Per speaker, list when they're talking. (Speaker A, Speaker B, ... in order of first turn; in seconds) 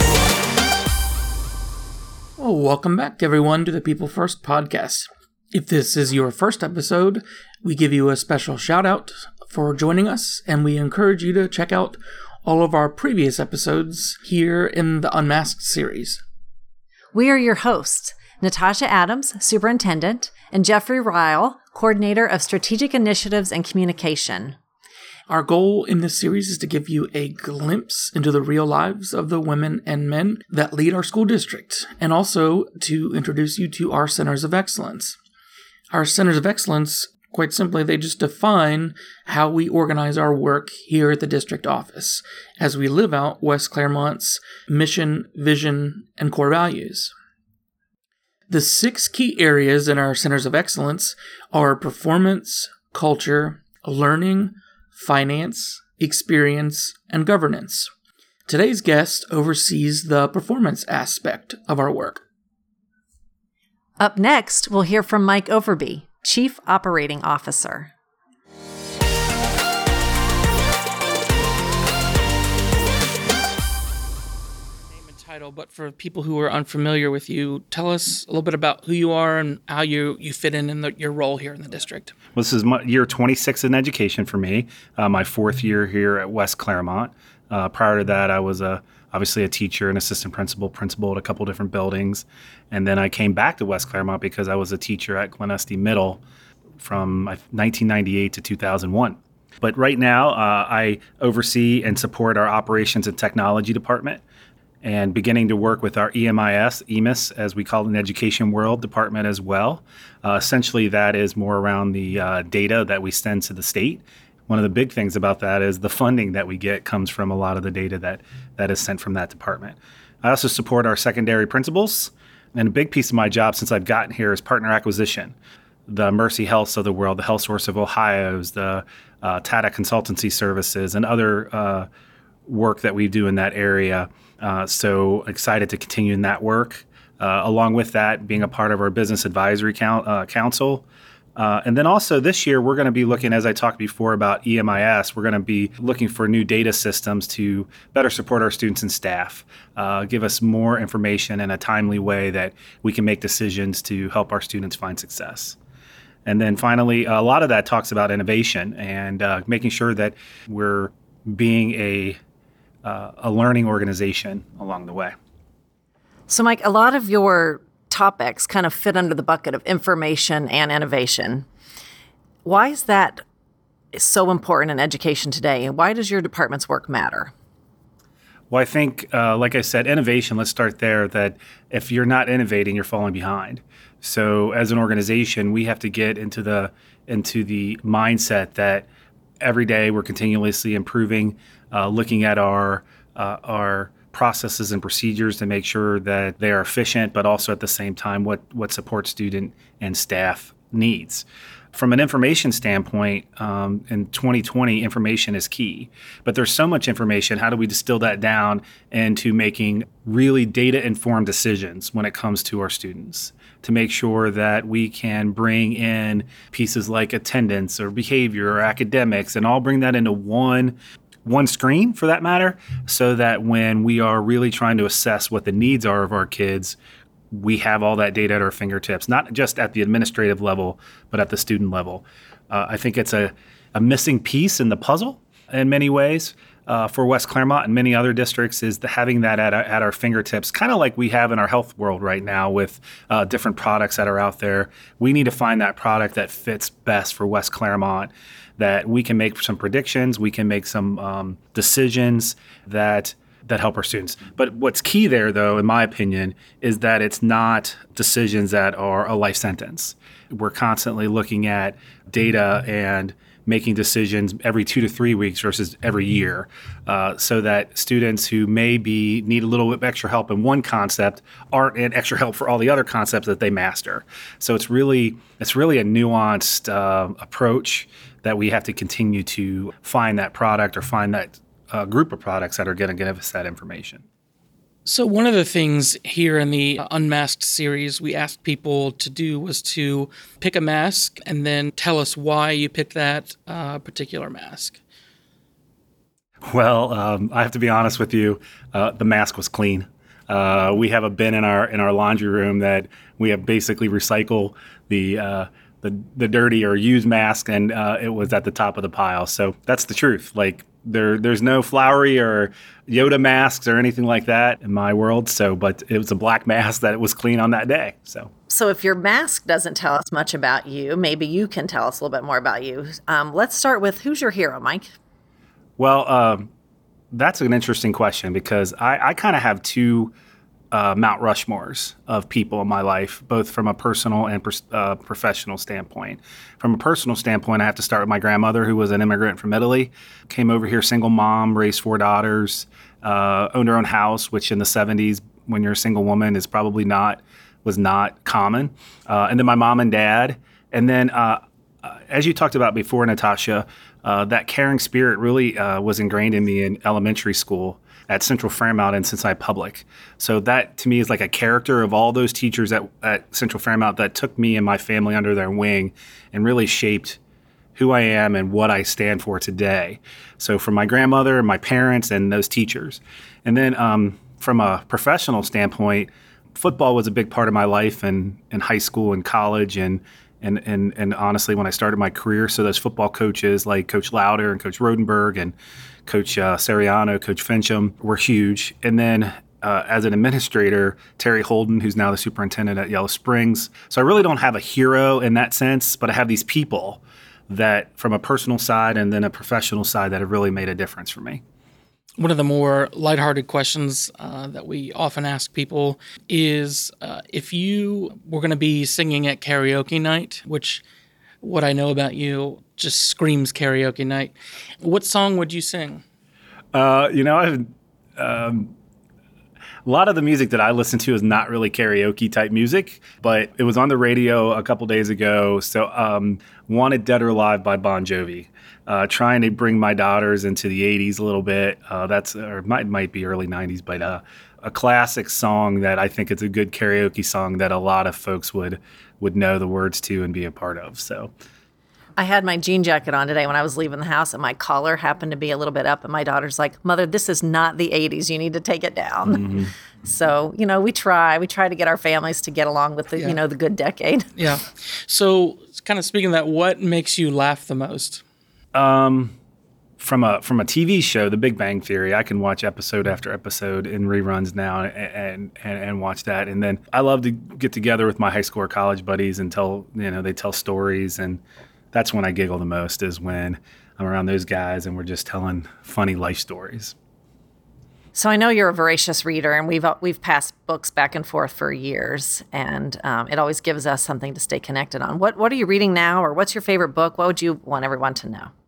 Speaker A: 2.4-16.2, 25.3-35.2, 35.9-47.1, 48.5-57.9, 58.5-62.2, 74.9-82.2, 284.9-294.8, 402.2-410.8, 411.4-416.0, 454.4-458.2
Speaker B: 17.1-24.6, 64.0-67.9, 166.3-171.5, 172.4-173.2, 173.9-177.3, 318.5-324.9, 442.2-454.3, 478.1-488.5
Speaker C: 82.3-96.2, 96.8-104.2, 104.8-125.3, 125.9-131.9, 132.5-155.6, 156.3-162.2, 162.8-165.2, 178.5-188.9, 189.4-226.8, 227.3-284.0, 296.5-318.3, 325.8-326.5, 327.1-330.1, 330.7-367.2, 367.8-385.6, 386.1-401.4, 416.7-418.7, 419.9-441.3, 458.7-459.4, 460.0-471.4, 471.9-476.9